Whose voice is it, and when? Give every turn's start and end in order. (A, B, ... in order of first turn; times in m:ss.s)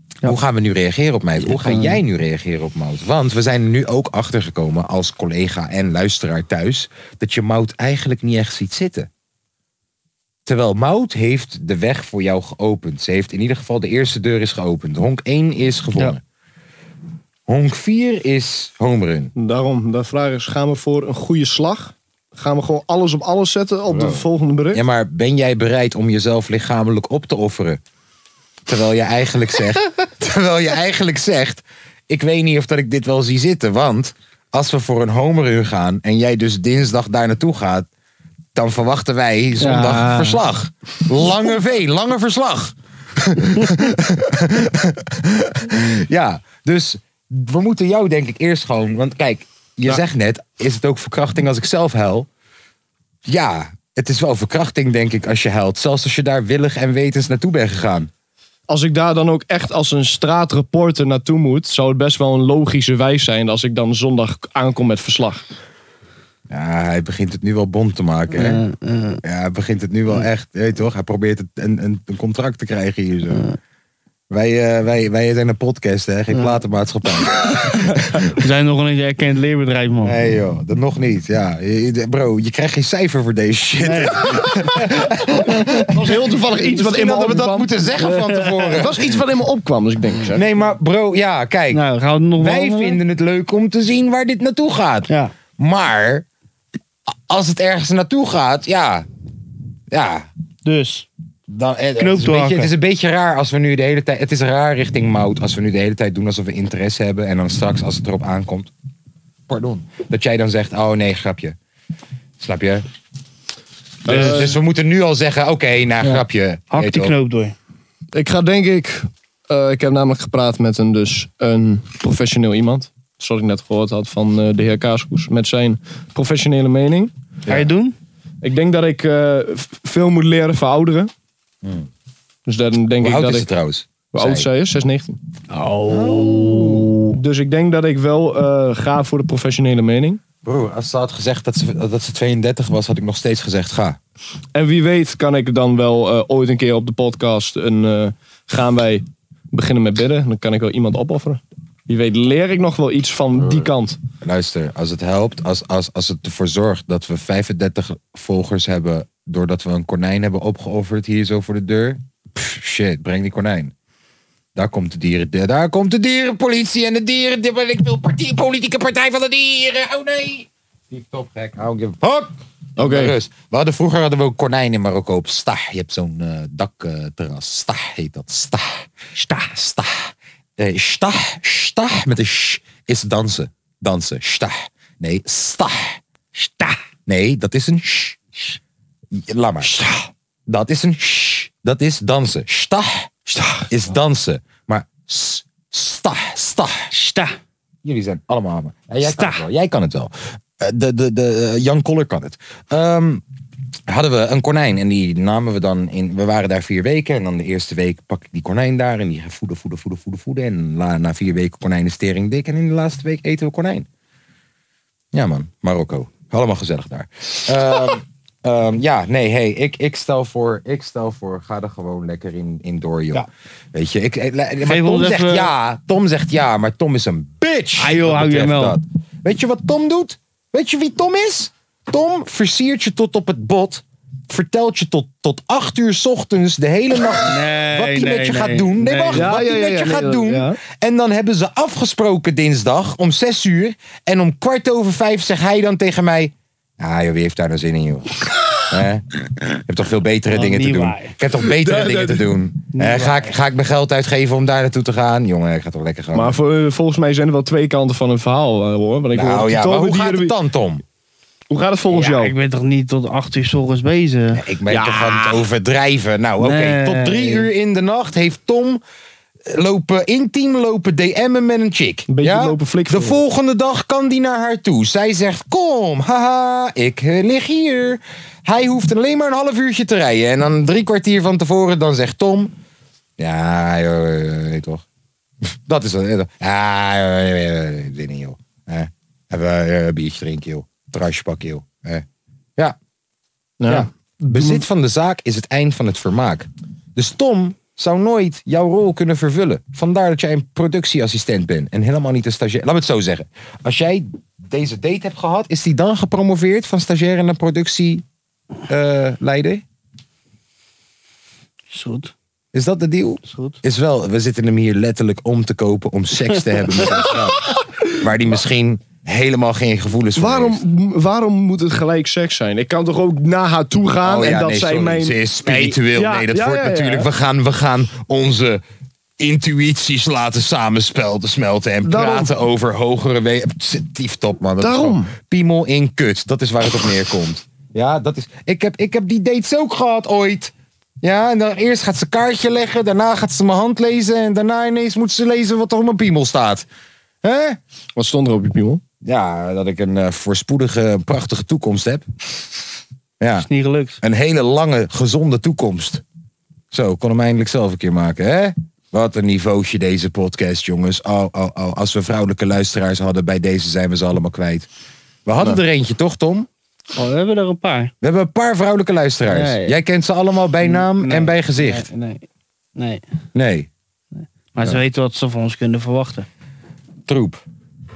0:00.2-0:09.1 A
0:01.5-0:02.0 B
0:10.5-0:16.2 A
0:17.5-0:19.3 A
0:19.4-0:24.8 C
0:23.9-0:27.8 A
0:28.7-0:37.9 A
0:38.6-0:52.3 A
0:39.6-0:40.4 B
0:53.3-0:58.1 A
0:58.7-1:05.4 C
1:06.5-1:08.6 A
1:08.4-1:09.2 B
1:09.2-1:13.5 A
1:14.3-1:18.3 A
1:18.3-1:20.2 B
1:20.0-1:29.2 A
1:23.8-1:24.9 B
1:25.5-1:25.9 B
1:25.9-1:27.9 C
1:28.0-1:28.8 B
1:28.8-1:30.4 C
1:30.3-1:31.8 A
1:31.7-1:33.0 B
1:32.4-1:36.3 A
1:37.3-1:39.1 A
1:39.9-1:40.3 A
1:40.6-1:41.1 B
1:41.5-1:48.7 A
1:42.0-1:42.7 B
1:49.5-1:51.6 A
1:52.4-1:52.8 A
1:54.0-1:54.6 C
1:54.1-1:57.2 A
1:56.7-1:57.6 B
1:58.1-2:07.1 C
2:07.5-2:08.0 B
2:08.4-2:11.1 C
2:11.6-2:11.9 A
2:12.5-2:13.5 C
2:13.0-2:14.5 A
2:14.1-2:15.2 C
2:15.5-2:17.2 B
2:15.9-2:16.9 A
2:17.1-2:20.2 C
2:20.4-2:24.0 A
2:24.6-2:34.0 C
2:33.4-2:33.7 A
2:34.2-2:43.7 A
2:44.6-2:58.9 A
2:52.8-2:53.2 C
2:59.2-2:59.5 B
2:59.5-3:06.0 A
3:06.4-3:06.8 B
3:07.1-3:08.2 A
3:09.1-3:09.7 A
3:09.6-3:10.1 B
3:10.5-3:13.2 A
3:13.3-3:13.6 B
3:13.7-3:16.9 A
3:16.9-3:17.4 B
3:17.8-3:23.2 A
3:19.0-3:19.4 B
3:23.9-3:33.9 A
3:35.1-4:16.4 A
3:44.6-3:45.5 B
3:47.8-3:48.8 B
3:57.3-3:59.3 B
3:59.1-4:00.6 C
4:10.3-4:11.2 B
4:11.5-4:12.3 C
4:12.7-4:13.3 B
4:16.1-4:20.3 C
4:19.1-4:20.8 A
4:21.5-4:22.4 C
4:21.9-4:24.4 B
4:24.3-4:28.8 A
4:26.4-4:27.5 B
4:29.5-4:42.5 A
4:32.1-4:33.2 C
4:43.2-4:44.8 A
4:45.6-4:52.1 A
4:53.6-4:54.6 C
4:53.7-5:08.0 A
5:08.7-5:09.6 A
5:11.7-5:12.1 B
5:12.5-5:20.6 A
5:13.3-5:13.6 B
5:20.2-5:25.2 C
5:24.0-5:28.6 A
5:25.5-5:25.7 B
5:25.8-5:27.1 C
5:29.2-5:46.7 A
5:31.8-5:32.3 C
5:34.6-5:35.1 C
5:47.2-5:47.6 A
5:48.0-5:48.8 C
5:49.0-5:52.1 A
5:53.2-5:53.5 A
5:53.4-5:54.0 B
5:54.0-5:56.0 A
5:56.7-6:04.7 A
6:05.3-6:06.5 A
6:07.0-6:07.9 B
6:08.0-6:11.9 A
6:09.3-6:09.8 B
6:10.6-6:12.2 B
6:12.8-6:13.0 B
6:13.3-6:13.7 A
6:14.5-6:16.3 B
6:17.1-6:17.4 A